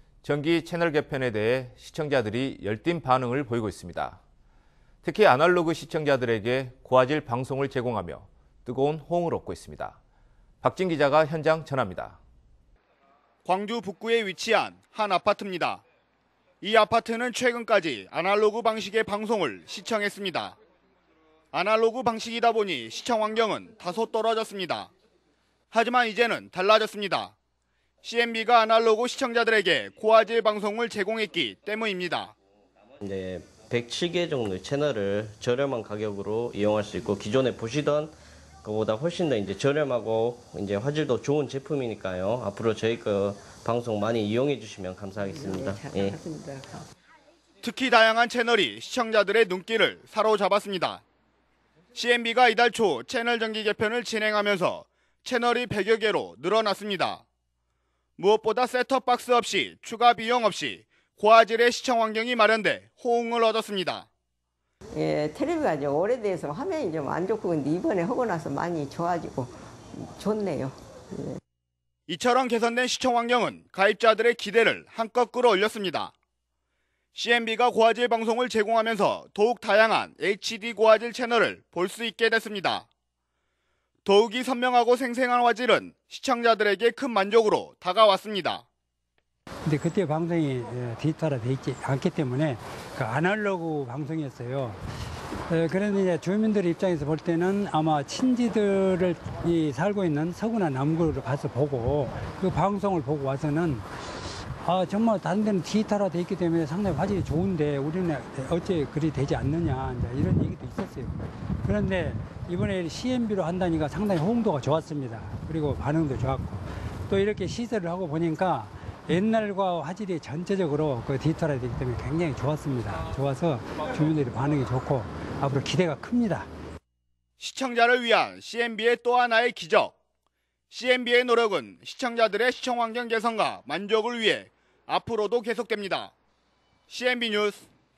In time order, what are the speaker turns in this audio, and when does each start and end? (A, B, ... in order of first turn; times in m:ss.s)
0:00.2-0:04.2 A
0:05.0-0:10.0 A
0:10.6-0:12.2 A
0:13.4-0:15.8 B
0:16.6-0:20.5 B
0:21.5-0:24.9 B
0:25.7-0:27.3 B
0:28.0-0:32.3 B
0:33.0-0:46.2 C
0:45.2-0:46.9 D
0:47.6-0:51.0 B
0:51.9-0:57.2 B
0:58.2-1:04.0 B
1:04.9-1:11.4 D
1:12.1-1:16.1 B
1:17.1-1:22.8 B
1:24.0-1:28.6 B
1:29.6-1:34.8 E
1:35.5-1:43.9 E
1:44.6-2:06.5 E
2:07.4-2:09.9 B
2:10.7-2:16.1 B
2:16.9-2:17.6 B